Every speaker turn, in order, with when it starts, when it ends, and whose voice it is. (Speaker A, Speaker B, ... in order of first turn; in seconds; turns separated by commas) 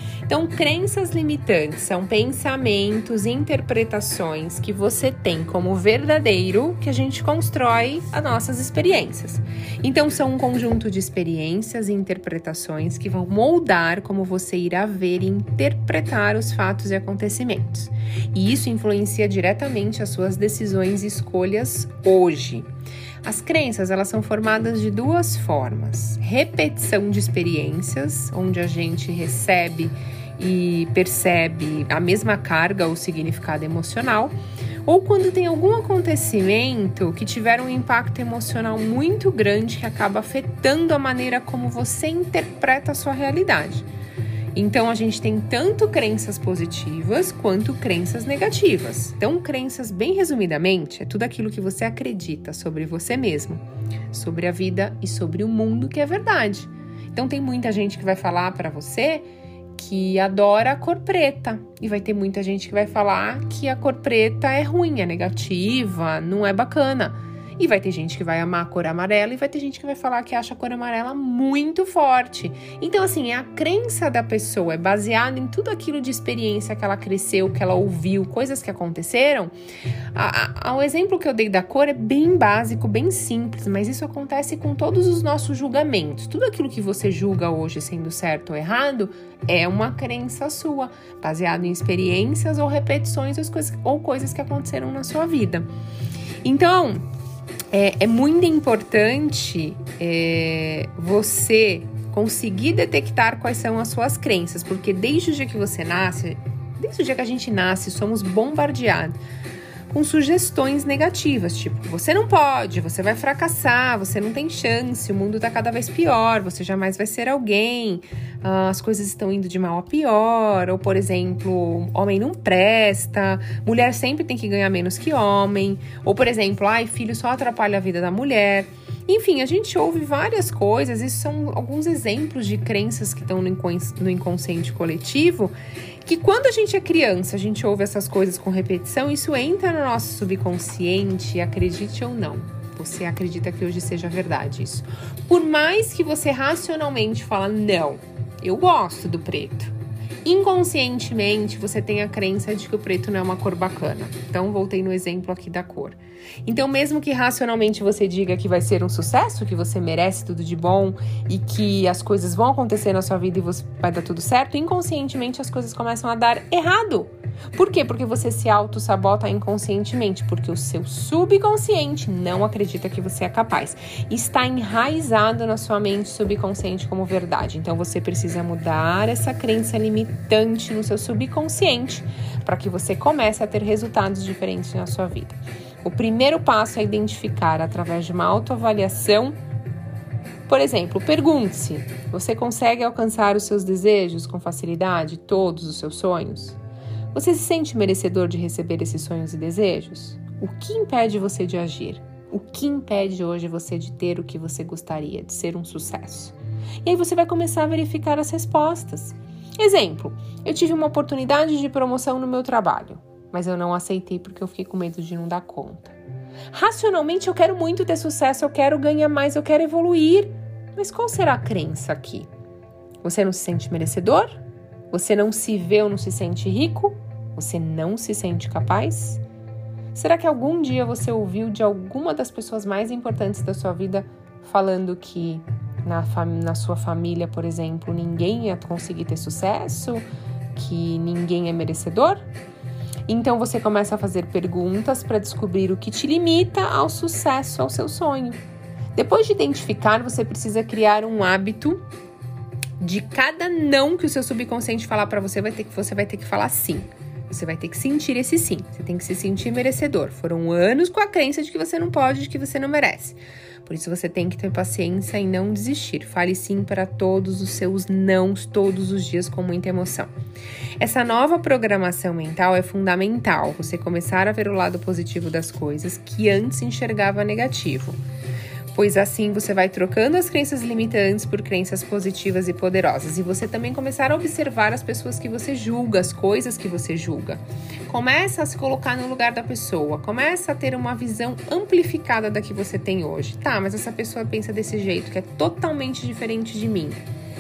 Speaker A: 0.3-22.7, Speaker A: 23.2-43.9, Speaker A: 44.5-79.5, Speaker A: 80.1-95.7, Speaker A: 96.4-97.0, Speaker A: 97.7-109.2, Speaker A: 109.9-149.7, Speaker A: 150.2-189.4, Speaker A: 190.5-196.6, Speaker A: 197.1-216.0, Speaker A: 216.5-222.3, Speaker A: 223.0-229.2, Speaker A: 229.9-242.3, Speaker A: 243.1-248.4, Speaker A: 248.9-251.8, Speaker A: 252.8-270.1, Speaker A: 270.8-278.0, Speaker A: 278.7-297.0